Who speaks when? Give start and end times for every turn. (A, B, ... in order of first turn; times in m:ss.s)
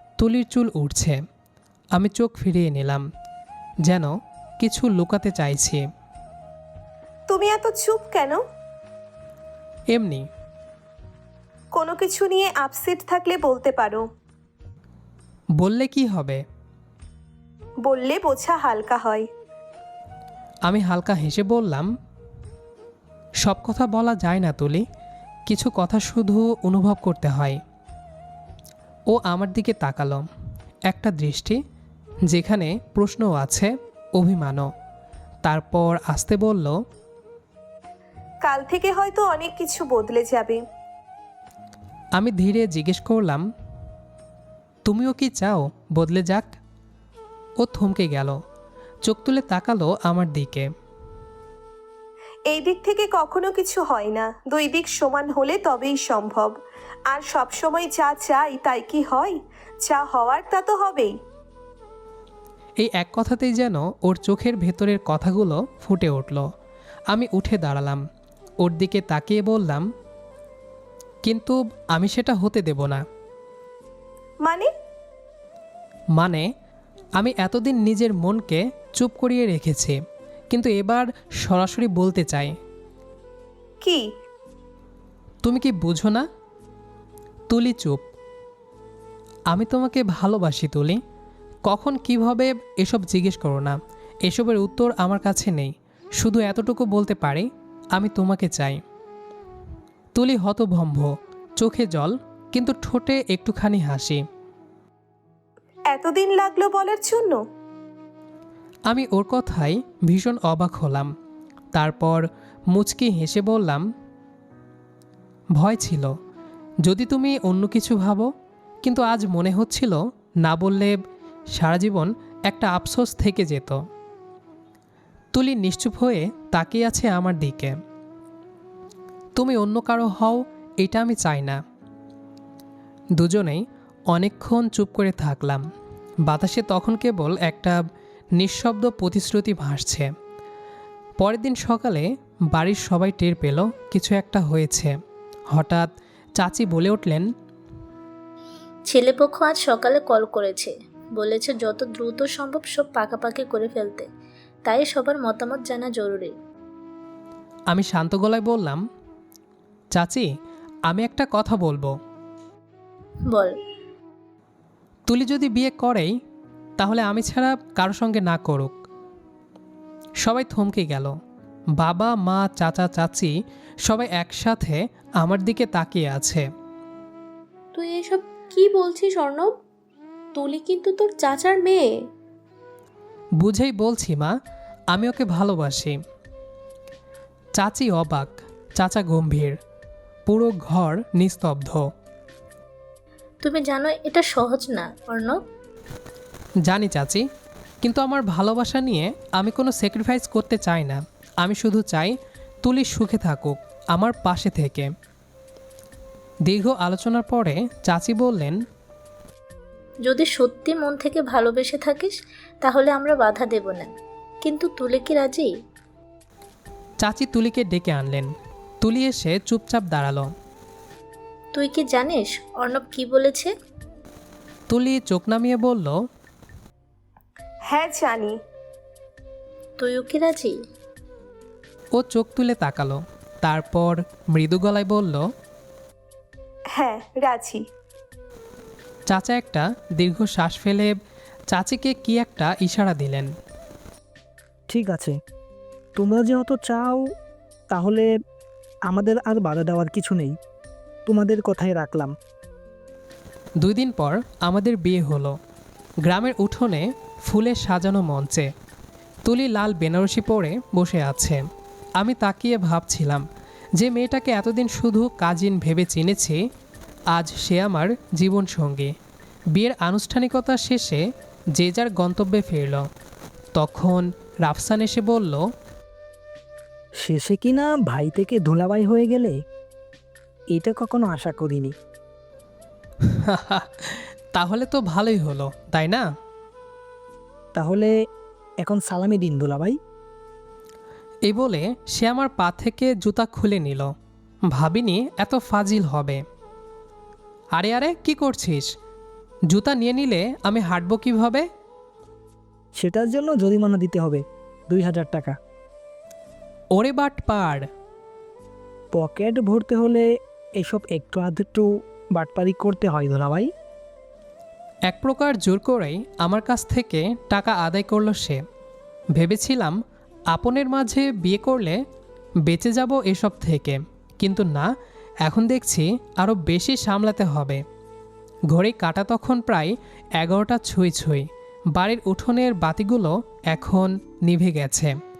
0:00.2-0:01.2 A
0:01.9-0:03.1 A
0:03.8-0:05.9 A
0:07.3-0:08.4 B
0:09.9-0:10.3 A
0:11.7-0:14.1 B
0:15.6-0:16.4 A
0:17.8-0:19.3 B
0:20.7-0:21.9 A
0:23.4-0:24.8 A
0:25.5-0:27.6 A
0:29.1-0:30.2 A
0:30.9-0:31.6 A
0:32.3-0:34.7 A
0:35.4-0:36.8 A
0:38.4-0:40.6 B
0:42.2-0:43.4 A
0:44.8-0:46.6 A
0:47.6-0:48.4 A
0:49.0-0:50.7 A
0:52.5-1:01.1 B
1:02.8-1:06.5 A
1:07.1-1:08.0 A
1:08.6-1:09.8 A
1:11.2-1:13.0 A
1:14.4-1:14.7 B
1:16.2-1:16.5 A
1:17.2-1:20.0 A
1:20.5-1:22.6 A
1:25.4-1:26.2 A
1:27.5-1:28.1 A
1:29.5-1:31.0 A
1:31.6-1:38.8 A
1:40.1-1:44.2 A
1:45.9-1:47.4 B
1:48.9-1:51.1 A
1:51.7-1:53.9 A
1:55.6-1:56.2 A
1:56.8-1:58.3 A
1:58.8-2:01.0 A
2:01.5-2:03.8 A
2:05.3-2:07.8 A
2:09.4-2:11.6 A
2:13.2-2:15.6 A
2:16.2-2:17.8 A
2:18.4-2:20.1 A
2:21.2-2:25.0 A
2:25.5-2:27.3 A
2:28.9-2:34.1 C
2:34.6-2:36.3 C
2:37.7-2:38.8 A
2:39.9-2:40.3 A
2:40.9-2:41.9 A
2:43.3-2:43.6 C
2:45.1-2:46.1 A
2:46.8-2:48.8 A
2:50.2-2:51.2 A
2:51.8-2:56.5 A
2:57.7-2:59.5 D
3:00.3-3:02.0 D
3:03.4-3:04.4 A
3:04.9-3:06.0 A
3:07.6-3:09.6 A
3:10.3-3:11.8 A
3:13.4-3:15.4 C
3:16.7-3:17.2 A
3:17.8-3:24.9 A
3:26.5-3:28.6 A
3:30.0-3:35.5 C
3:37.0-3:40.3 A
3:41.5-3:43.5 C
3:44.7-3:46.0 A
3:47.7-3:48.4 B
3:49.8-3:50.6 C
3:52.0-3:55.2 A
3:56.8-3:57.6 B
3:59.1-4:01.0 A
4:01.5-4:03.3 A
4:04.7-4:05.2 E
4:06.0-4:07.1 E
4:07.7-4:08.1 E
4:08.9-4:10.4 E
4:11.1-4:12.1 E
4:13.6-4:15.4 A
4:16.0-4:18.5 A
4:19.2-4:21.4 A
4:22.0-4:23.2 A
4:23.8-4:26.4 A
4:27.1-4:28.9 A
4:29.5-4:31.0 A
4:31.6-4:32.9 A
4:33.6-4:35.4 A
4:37.0-4:39.4 E
4:40.5-4:41.7 E
4:43.1-4:46.0 A
4:47.6-4:47.9 E
4:48.6-4:49.8 E
4:51.3-4:53.9 A
4:54.5-4:56.2 A
4:57.5-4:58.7 A
4:59.5-5:01.5 A
5:02.8-5:05.4 E
5:06.7-5:07.7 A
5:08.9-5:10.1 E
5:10.6-5:13.5 E
5:14.9-5:18.4 A
5:19.2-5:19.8 A
5:20.3-5:21.8 A
5:22.4-5:24.7 A
5:25.2-5:27.6 A
5:28.5-5:35.0 A